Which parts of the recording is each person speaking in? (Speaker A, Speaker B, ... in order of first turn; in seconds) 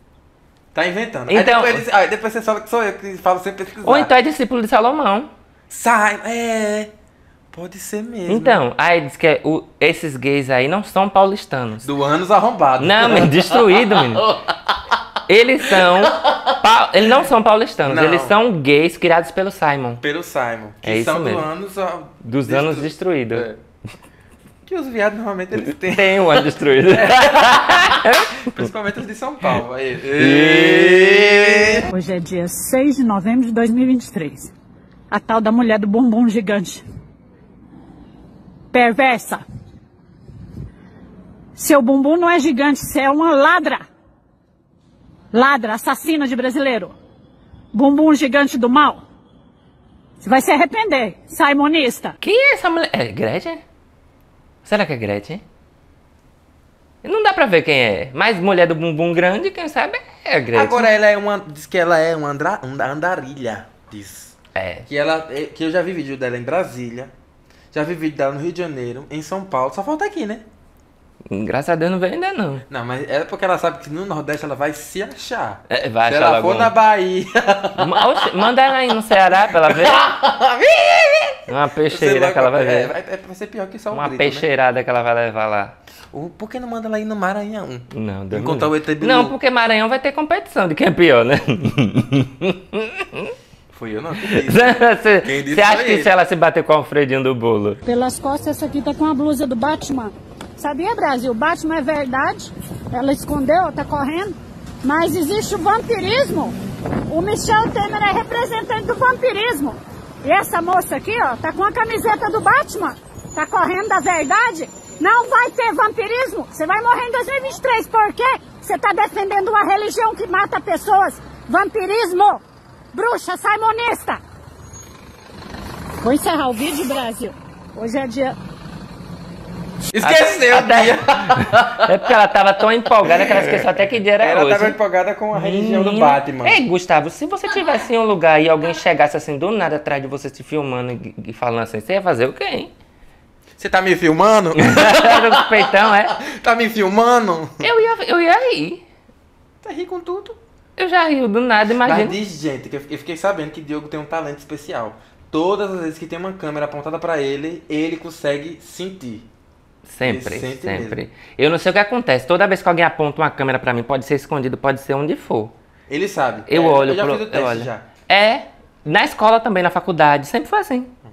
Speaker A: 0.7-4.1, 5.7-6.9, 7.5-8.6, 11.8-15.0, 15.7-16.5, 17.9-18.4, 20.0-23.6, 24.7-31.9, 60.5-64.3, 64.9-67.1, 67.7-70.4, 72.7-78.5, 79.5-84.5, 86.1-89.3, 93.7-96.1, 129.9-131.9, 133.0-133.7, 134.2-136.6, 143.6-147.6, 149.6-150.4, 151.8-159.3, 160.0-161.0, 165.9-167.8
Speaker B: 1.3-1.8, 3.8-5.3, 8.3-11.9, 12.8-14.3, 15.3-20.0, 20.8-21.5, 22.2-23.5, 25.8-28.6, 30.2-31.8, 52.2-53.6, 54.6-55.4, 57.0-60.9, 64.5-64.9, 71.3-72.7, 75.7-76.7, 77.8-80.0, 81.5-83.0, 83.9-85.7, 87.9-93.3, 94.3-97.8, 130.0-134.8, 135.3-142.7, 144.6-146.2, 147.6-148.8, 150.8-152.2, 159.9-165.5, 166.5-170.9
Speaker C: 31.9-34.5, 35.1-36.8, 38.7-39.4, 41.5-43.9, 45.3-47.0, 47.7-49.0, 50.2-52.2, 97.8-106.6, 107.1-124.2, 126.0-128.4